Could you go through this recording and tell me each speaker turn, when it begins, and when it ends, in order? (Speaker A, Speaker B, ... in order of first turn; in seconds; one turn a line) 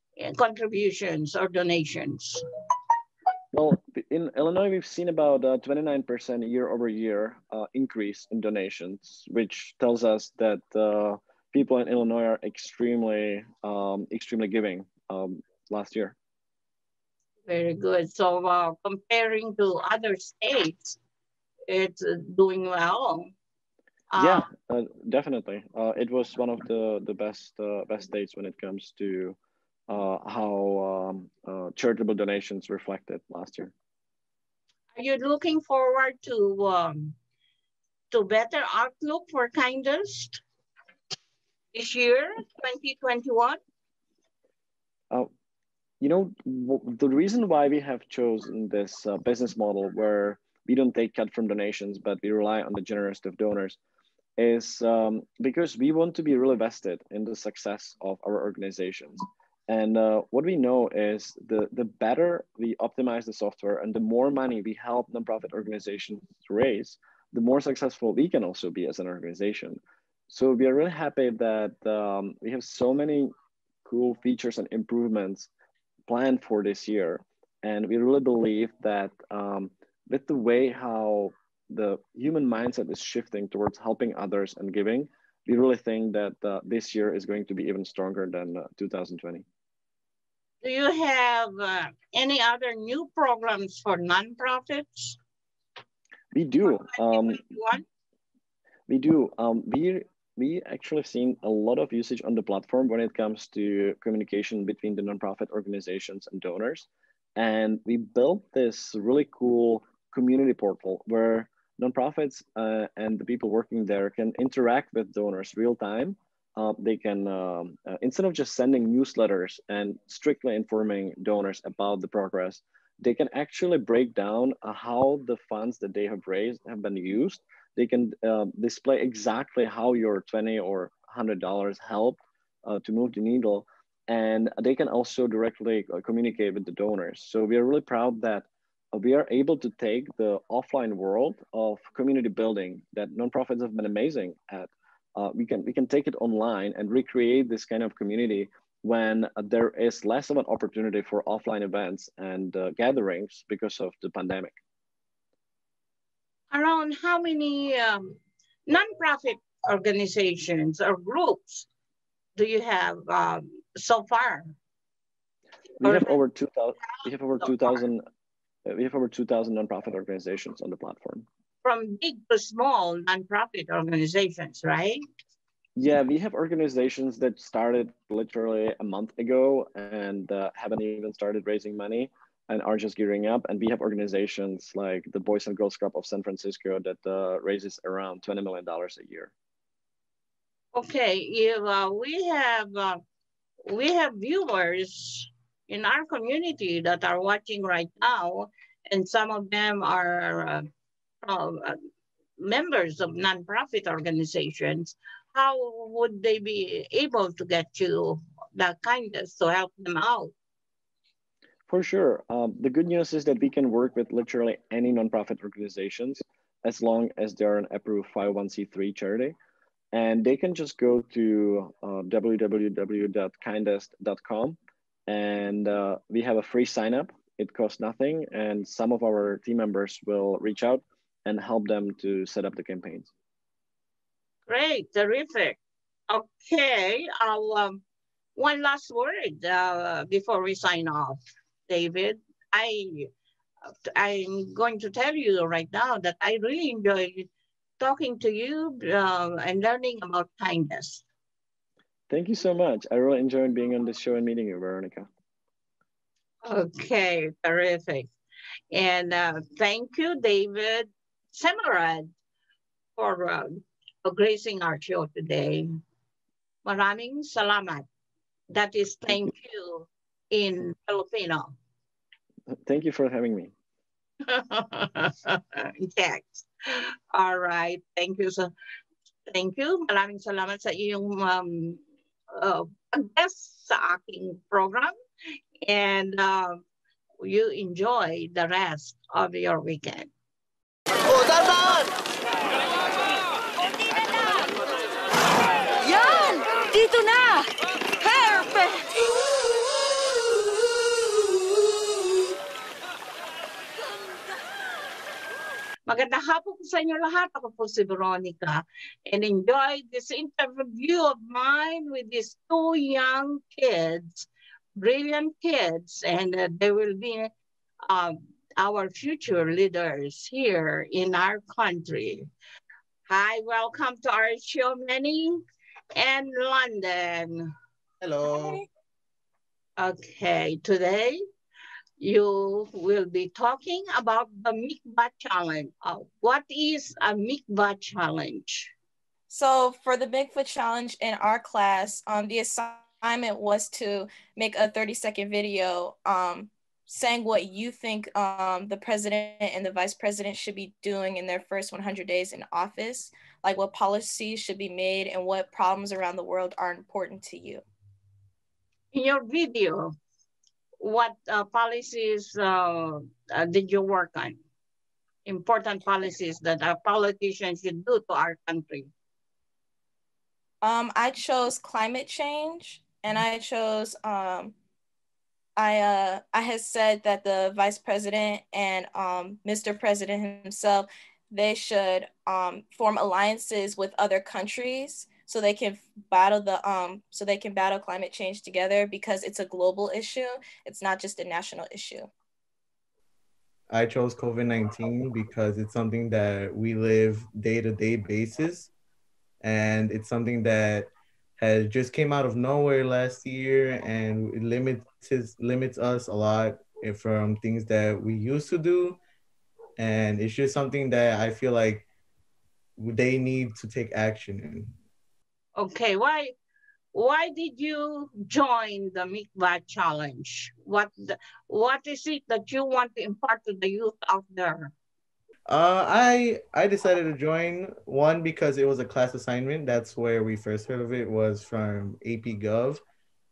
Speaker A: 0.2-2.4
Speaker B: 3.5-16.2
Speaker A: 17.5-21.0
Speaker A: 21.7-23.3
Speaker A: 24.1-24.4
Speaker B: 24.2-29.4
Speaker B: 29.9-33.7
Speaker A: 35.0-37.1
Speaker A: 38.1-40.4
Speaker A: 41.7-43.6
Speaker B: 46.0-53.8
Speaker B: 54.4-73.3
Speaker B: 73.8-75.5
Speaker B: 76.1-89.5
Speaker A: 90.6-95.2
Speaker B: 96.3-97.4
Speaker A: 96.7-97.8
Speaker B: 98.9-154.6
Speaker A: 156.5-161.7
Speaker A: 162.3-164.6
Speaker B: 165.8-168.0
Speaker A: 165.8-166.2
Speaker B: 168.7-171.3
Speaker A: 171.6-175.0
Speaker B: 175.8-189.3
Speaker A: 190.7-193.0
Speaker A: 193.7-200.7
Speaker A: 201.2-201.8
Speaker A: 202.4-210.3
Speaker B: 211.7-219.4
Speaker B: 219.9-233.1
Speaker A: 234.5-235.6
Speaker A: 236.1-237.8
Speaker A: 238.4-243.1
Speaker A: 243.7-247.3
Speaker A: 247.8-251.0
Speaker B: 252.1-255.1
Speaker A: 256.5-258.1
Speaker A: 258.7-262.1
Speaker A: 263.0-265.7
Speaker A: 266.6-267.9
Speaker A: 268.5-271.6
Speaker B: 272.5-273.5
Speaker A: 274.2-278.5
Speaker A: 279.3-281.8
Speaker A: 282.3-284.9
Speaker A: 285.7-286.6
Speaker A: 287.2-290.1
Speaker C: 295.9-297.4
Speaker C: 298.0-299.1
Speaker A: 305.9-317.3
Speaker A: 317.9-322.3
Speaker A: 323.1-325.4
Speaker A: 325.9-327.5
Speaker D: 328.0-328.6
Speaker E: 328.2-328.6
Speaker A: 329.8-331.2
Speaker A: 332.0-338.7
Speaker E: 339.3-357.6
Speaker A: 358.9-359.9
Speaker A: 360.8-364.4
Speaker A: 365.3-368.9
Speaker E: 370.6-374.5
Speaker E: 375.6-392.1
Speaker D: 393.7-398.7
Speaker D: 399.4-409.0
Speaker D: 409.8-411.9
Speaker D: 412.8-414.7
Speaker A: 415.6-416.3
Speaker A: 416.9-424.7
Speaker D: 425.5-432.8